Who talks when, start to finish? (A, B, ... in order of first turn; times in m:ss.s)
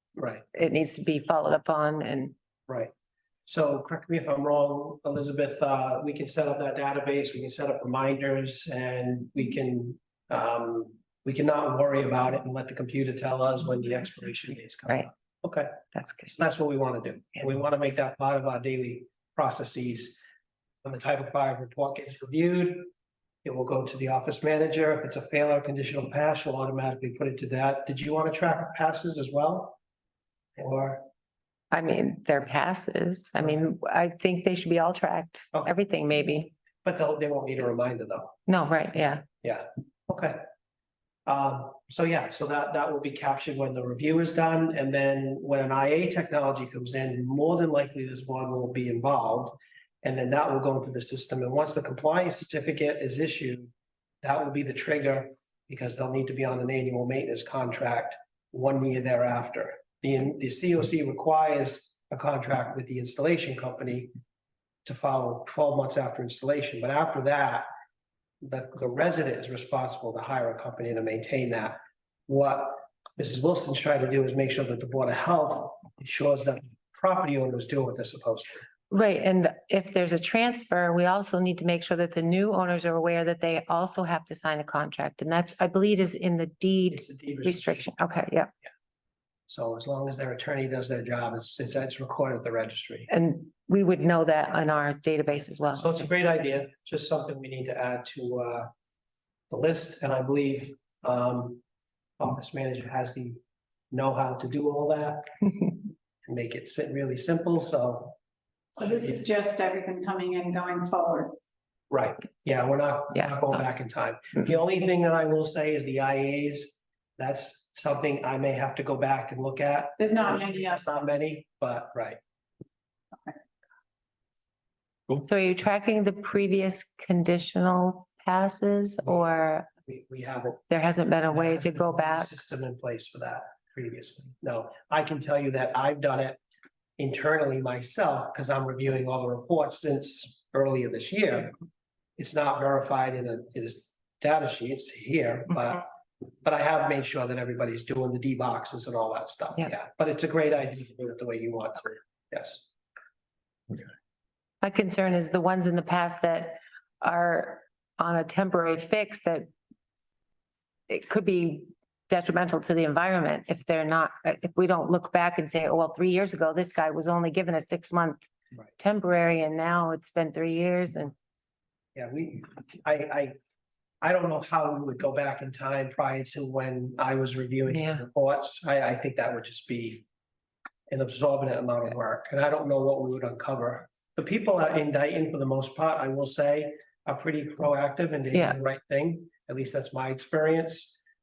0:00.2-0:00.4 A
0:00.5-0:02.3 B
0:03.5-0:20.2 A
0:15.9-0:16.3 B
0:20.8-0:22.9 A
0:23.4-0:29.8 A
0:30.6-0:31.0 A
0:31.7-0:36.5 B
0:36.8-0:38.4 A
0:38.5-0:39.2 B
0:39.4-0:40.4 A
0:41.2-0:53.7 A
0:54.2-1:04.1 A
1:04.8-1:07.7 A
1:08.4-1:18.7 A
1:18.9-1:28.5 B
1:26.9-1:27.9 A
1:29.5-1:33.1 A
1:33.1-1:36.0 B
1:35.7-1:38.7 A
1:39.5-1:41.6 A
1:42.2-1:43.4 A
1:43.9-1:45.5 A
1:46.2-1:48.2 A
1:48.8-1:51.4 C
1:48.8-1:49.2 A
1:51.9-2:02.2 A
2:00.0-2:00.9 C
2:05.2-2:09.7 B
2:09.8-2:10.6 A
2:10.7-2:12.3 B
2:11.3-2:16.4 A
2:17.0-2:21.5 A
2:22.2-2:25.8 A
2:26.4-2:32.7 A
2:34.6-2:39.5 B
2:40.9-2:48.3 B
2:48.8-2:51.1 B
2:51.9-2:53.4 A
2:54.0-3:00.0 A
2:57.7-2:58.0 B
3:00.9-3:11.0 A